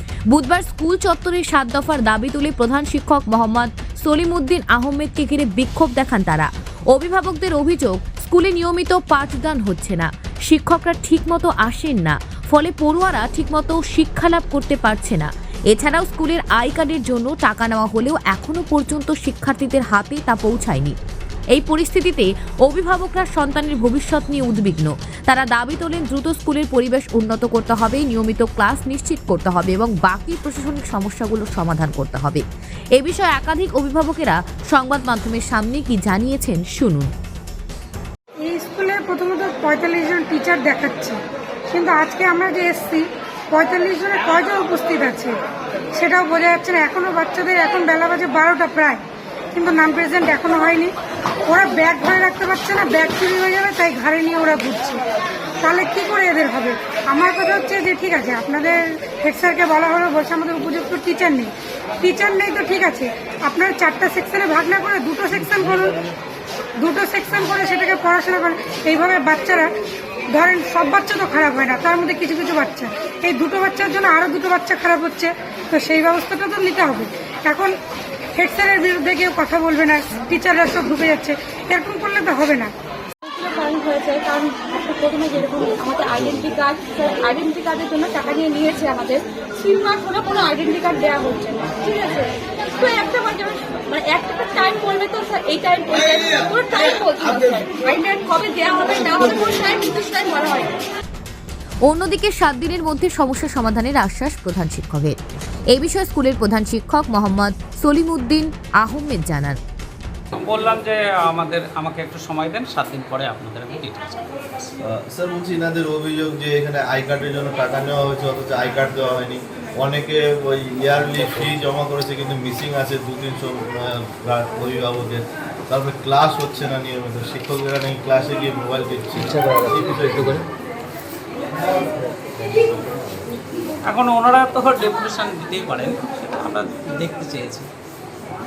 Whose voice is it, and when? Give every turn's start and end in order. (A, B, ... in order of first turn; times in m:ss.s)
0:00.3-0:21.0 A
0:21.5-0:32.4 A
0:33.0-0:37.1 A
0:38.4-0:41.2 B
0:41.7-0:45.3 B
0:46.0-0:49.0 B
0:49.5-0:50.9 B
0:51.5-0:55.0 B
0:55.6-1:06.0 B
1:06.8-1:09.7 B
1:10.3-1:17.7 B
1:18.4-1:22.7 B
1:23.2-1:40.7 C
1:41.9-1:45.2 A
1:45.7-1:49.6 A
1:50.3-1:54.4 D
1:54.8-2:10.4 E
2:13.9-2:17.7 D